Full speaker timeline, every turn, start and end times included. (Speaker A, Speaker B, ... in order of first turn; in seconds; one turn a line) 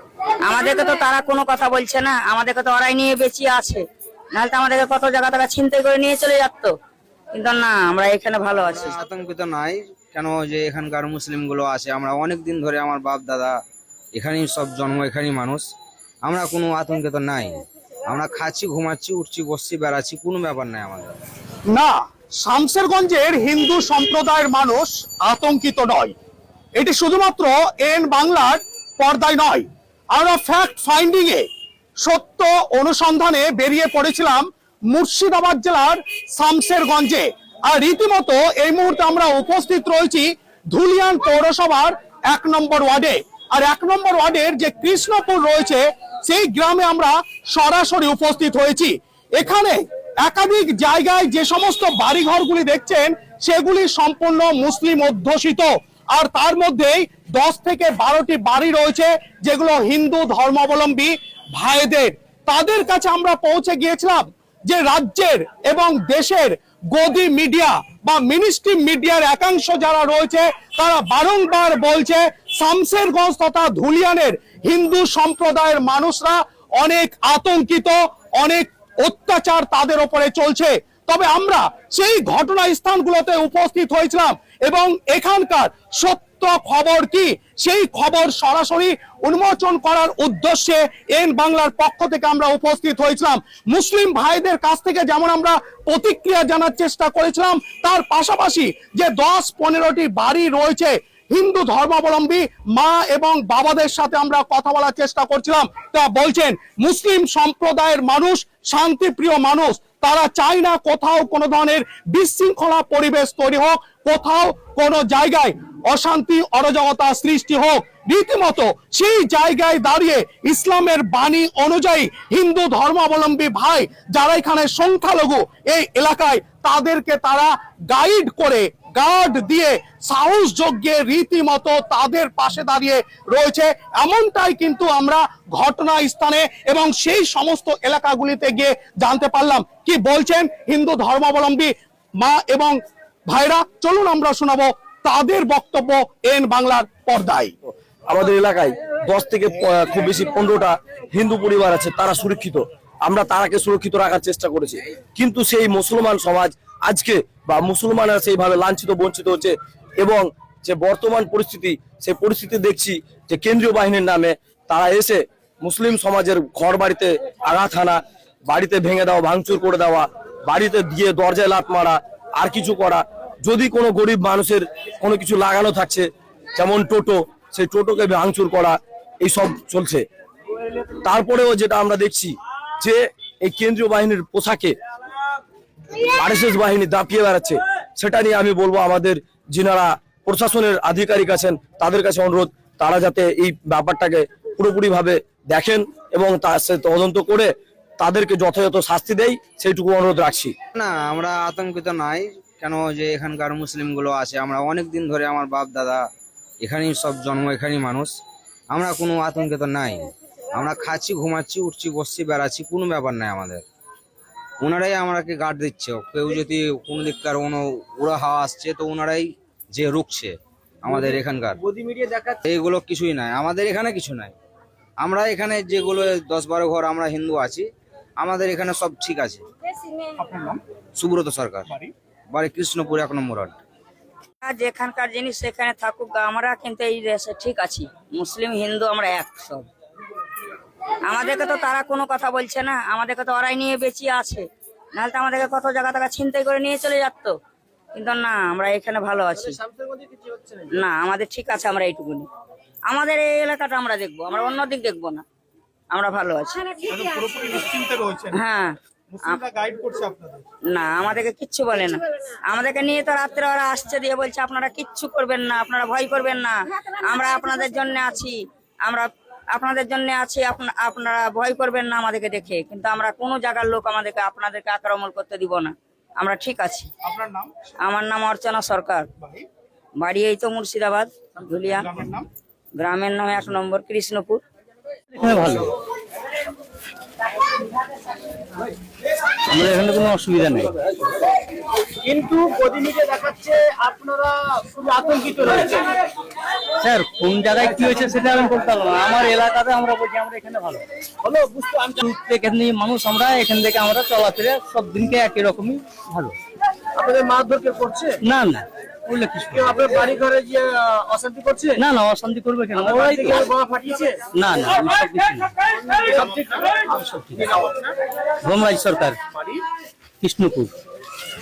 Speaker A: 0.4-3.8
Speaker A: 4.3-6.7
Speaker A: 7.3-8.9
Speaker B: 8.5-13.6
Speaker B: 14.1-15.7
Speaker B: 16.2-21.2
Speaker C: 21.7-26.1
Speaker C: 26.8-31.4
Speaker C: 32.0-142.8
Speaker C: 143.3-147.5
Speaker D: 148.1-180.0
Speaker D: 181.0-184.7
Speaker D: 186.2-200.5
Speaker B: 200.7-206.0
Speaker B: 206.6-208.1
Speaker B: 208.7-213.6
Speaker B: 214.6-221.7
Speaker B: 222.3-224.3
Speaker B: 225.0-229.4
Speaker C: 230.2-230.6
Speaker B: 230.9-231.8
Speaker B: 232.3-233.6
Speaker A: 234.4-239.7
Speaker A: 241.0-244.4
Speaker A: 244.9-247.3
Speaker A: 247.9-249.6
Speaker A: 250.7-252.3
Speaker A: 252.9-255.2
Speaker A: 255.9-256.8
Speaker C: 256.9-258.4
Speaker A: 258.3-259.4
Speaker C: 259.1-260.4
Speaker A: 260.7-276.9
Speaker C: 277.0-277.5
Speaker A: 277.8-279.1
Speaker A: 280.0-281.9
Speaker C: 281.8-282.2
Speaker A: 282.8-284.4
Speaker E: 285.1-285.7
Speaker E: 289.4-290.8
Speaker F: 292.0-295.7
Speaker E: 295.4-295.8
Speaker E: 296.8-306.3
Speaker F: 301.6-301.9
Speaker F: 307.0-308.2
Speaker E: 308.1-310.2
Speaker F: 310.1-311.6
Speaker E: 311.6-317.6
Speaker F: 313.7-314.2
Speaker E: 318.4-319.6
Speaker E: 320.2-320.7